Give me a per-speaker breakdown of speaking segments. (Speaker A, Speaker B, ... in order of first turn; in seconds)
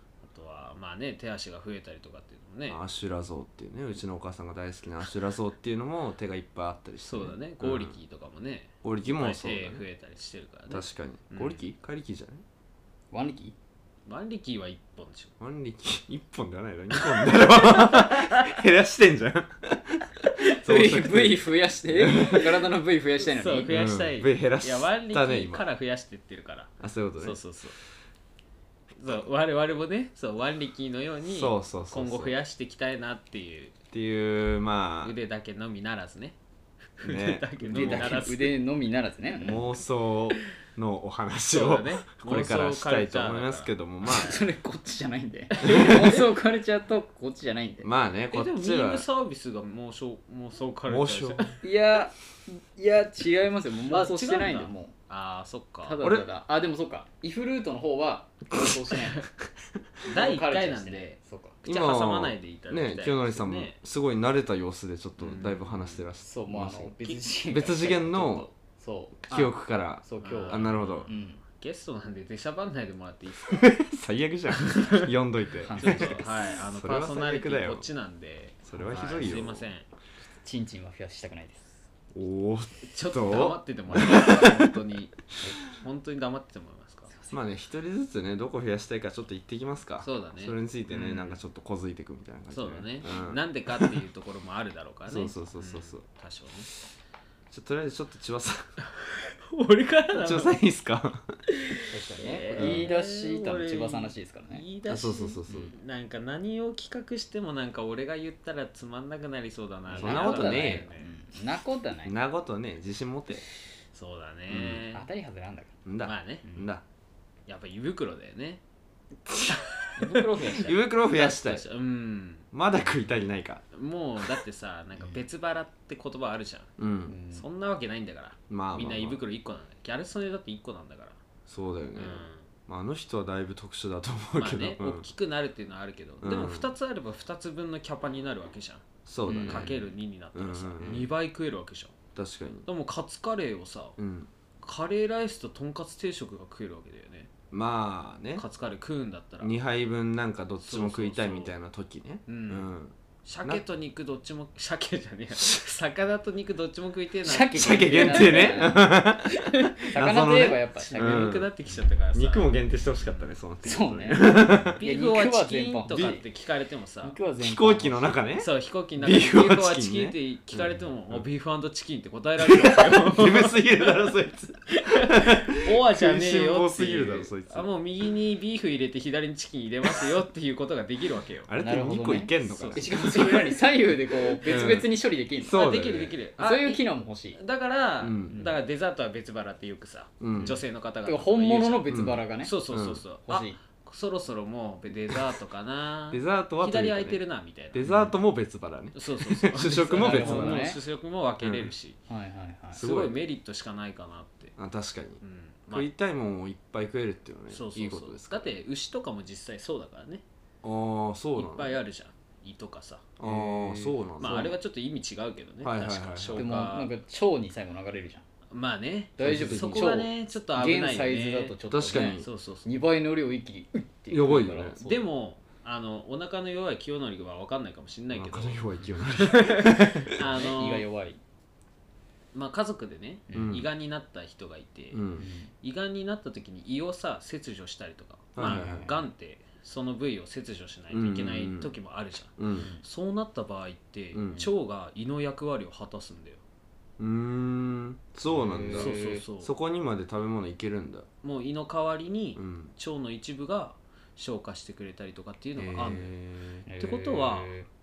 Speaker A: 0.2-2.8, 7.0-11.6, 14.1-15.3, 16.9-18.6, 23.2-27.8, 29.0-33.7, 35.0-36.4, 37.0-38.6, 41.5-44.4, 48.3-51.6, 53.9-56.0, 60.0-63.8, 65.2-66.0, 70.2-73.7, 74.6-75.1, 75.8-79.8, 82.9-87.1, 90.0-91.4, 92.5-96.7, 99.0-100.6, 101.5-111.1, 113.9-115.0, 116.0-116.4, 117.5-118.6, 119.5-120.2, 121.0-122.5, 123.7-126.7, 127.3-131.2, 131.9-132.5, 134.3-142.0, 142.7-143.9, 144.6-147.3, 148.3-149.5, 150.6-151.5, 152.3-152.7, 153.2-158.8, 159.4-159.7, 160.8-163.2, 164.7-167.2, 168.4-174.2, 174.7-181.5, 182.4-183.5, 185.5-186.8, 187.3-198.1, 198.9-202.0, 202.7-204.5, 205.2-205.9, 207.5-210.2, 211.3-213.1, 214.2-216.9, 218.5-222.7, 224.8-230.9, 232.3-235.1, 235.6-246.4, 248.7-249.5, 251.2-256.1, 256.8-257.5
Speaker B: 2.7-7.9, 8.8-9.8, 10.7-12.4, 15.4-22.6, 23.7-25.6, 26.8-27.4, 31.3-32.3, 33.9-35.1, 37.0-38.3, 39.4-44.3, 45.6-46.2, 47.8-49.0, 50.9-51.5, 56.0-56.3, 61.6-68.5, 69.3-71.1, 73.5-77.8, 78.6-79.7, 82.1-84.7, 87.3-94.0, 95.1-96.0, 97.5-98.7, 100.1-101.3, 102.5-102.9, 104.9-105.7, 109.9-110.9, 112.0-113.4, 114.5-114.8, 115.8-116.8, 119.3-119.6, 120.6-121.6, 122.5-123.6, 126.8-127.2, 128.5-129.2, 131.5-135.1, 136.2-136.7, 139.1-141.1, 142.2-142.7, 144.0-144.3, 147.5-148.4, 149.4-153.6, 157.5-161.5, 162.1-164.8, 165.9-166.2, 167.4-171.2, 172.4-177.7, 181.4-183.5, 184.4-186.2, 188.0-188.5, 190.2-190.6, 191.9-193.0, 196.1-197.2, 197.7-200.8, 201.4-201.7, 202.7-203.2, 204.6-208.6, 210.6-211.8, 213.2-214.5, 215.6-216.5, 219.2-220.0, 221.7-222.3, 224.1-224.8, 228.1-230.1, 233.3-233.7, 234.9-235.3, 238.3-238.8, 240.9-241.7, 242.4-242.7, 244.1-244.5, 247.0-251.1, 252.3-252.7, 255.6-256.6
Speaker C: 13.1-13.5, 20.6-23.7, 37.7-39.7, 44.0-47.9, 51.6-54.9, 55.8-59.2, 60.1-61.5, 66.2-69.3, 70.0-71.4, 75.6-76.3, 80.4-81.8, 101.9-104.6, 109.9-112.1, 114.9-115.7, 120.0-120.7, 127.1-127.4, 139.3-139.7, 157.2-159.1, 159.9-161.3, 163.6-166.2, 167.0-168.2, 181.6-185.6, 186.4-187.4, 190.3-192.5, 193.2-193.6, 199.9-200.8, 202.1-202.8, 213.2-214.5, 216.3-218.2, 219.2-225.1, 230.1-231.2, 233.3-233.5, 235.2-235.5, 238.4-239.0, 248.3-249.2, 256.7-257.7